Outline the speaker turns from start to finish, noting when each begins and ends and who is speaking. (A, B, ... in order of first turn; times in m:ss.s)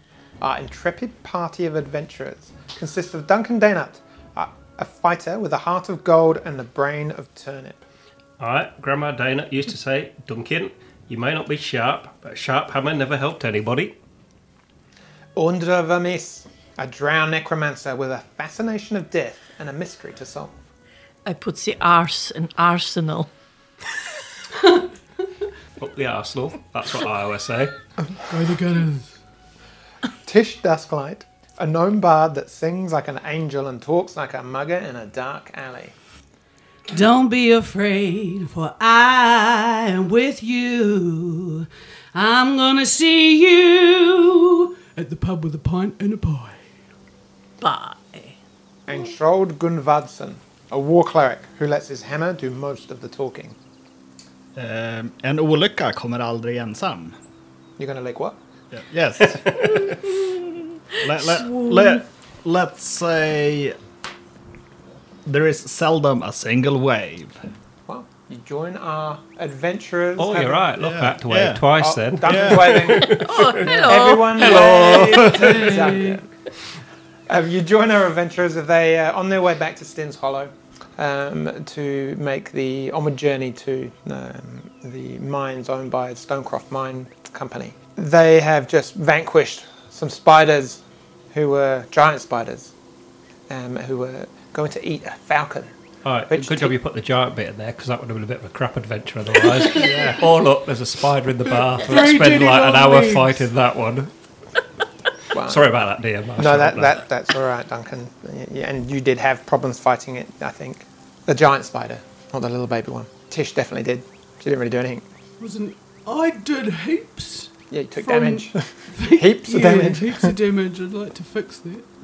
0:00.4-0:07.8 A
0:08.4-0:13.9 B
0:15.4-0:20.6 A
0:21.2-0:23.3 C
0:25.8-0:27.7 B
0:28.2-0:29.1 D
0:30.2-0:35.9 A
0:36.9-0:46.6 D
0:47.6-0:48.4 C
0:48.9-0:53.6 A
0:54.5-0:57.2 E
0:57.8-0:58.4 A
0:58.7-1:00.0 E
0:59.6-1:02.0 C
1:01.0-1:03.8 E
1:05.2-1:07.4 E
1:07.9-1:10.6 A
1:10.2-1:15.7 B
1:10.8-1:11.6 E
1:11.8-1:16.3 A
1:12.2-1:12.9 E
1:13.0-1:15.3 C
1:15.2-1:16.2 D
1:17.3-1:30.8 A
1:31.3-1:32.7 A
1:33.5-1:35.7 A
1:36.0-1:44.1 B
1:36.3-1:36.7 A
1:39.7-1:40.0 D
1:41.7-1:43.4 D
1:45.3-1:45.6 A
1:45.4-1:47.0 B
1:46.4-1:55.0 A
1:55.4-2:01.8 D
1:57.7-2:00.3 A